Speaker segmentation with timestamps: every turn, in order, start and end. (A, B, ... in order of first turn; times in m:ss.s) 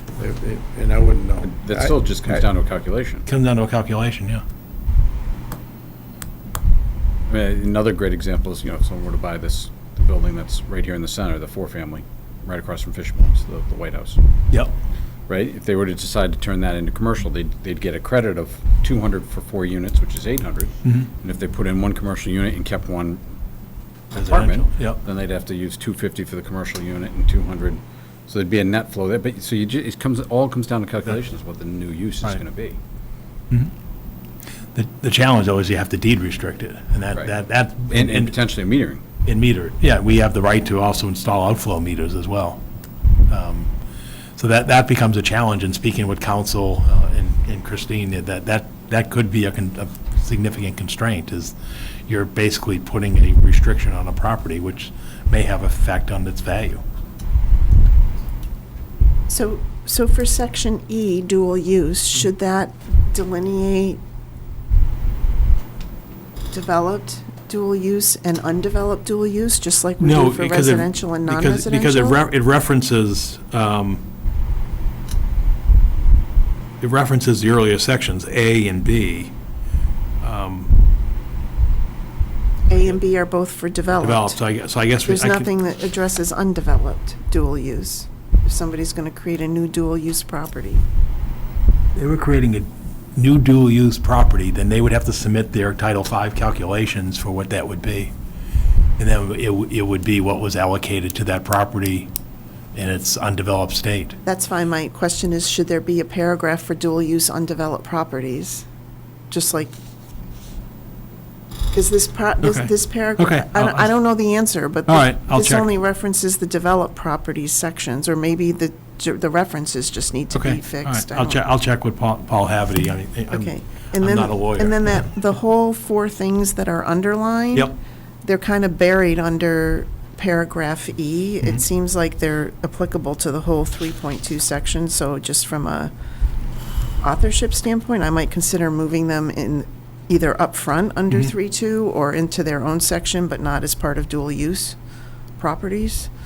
0:00.2-0:02.3 A
0:01.4-0:03.2 B
0:03.2-0:04.4 C
0:07.3-0:14.2 B
0:15.3-0:23.2 B
0:20.8-0:21.1 C
0:24.1-0:25.0 C
0:24.1-0:32.8 B
0:34.8-0:38.3 C
0:37.9-0:39.0 B
0:39.2-0:42.6 C
0:43.3-0:43.7 C
0:44.4-0:51.5 C
0:52.1-0:56.8 C
0:59.3-1:04.0 D
1:06.5-1:12.2 D
1:10.0-1:14.0 C
1:16.8-1:19.3 C
1:20.2-1:20.8 C
1:22.7-1:24.4 D
1:24.0-1:25.5 C
1:25.0-1:30.8 D
1:31.9-1:38.1 C
1:39.0-1:42.1 C
1:42.8-1:44.2 C
1:44.2-1:48.6 D
1:49.3-1:49.8 D
1:51.7-2:01.4 D
1:52.4-1:53.9 C
1:54.9-1:55.7 C
2:00.3-2:05.1 C
2:03.3-2:07.7 D
2:08.2-2:15.9 D
2:17.0-2:24.8 D
2:25.4-2:26.1 D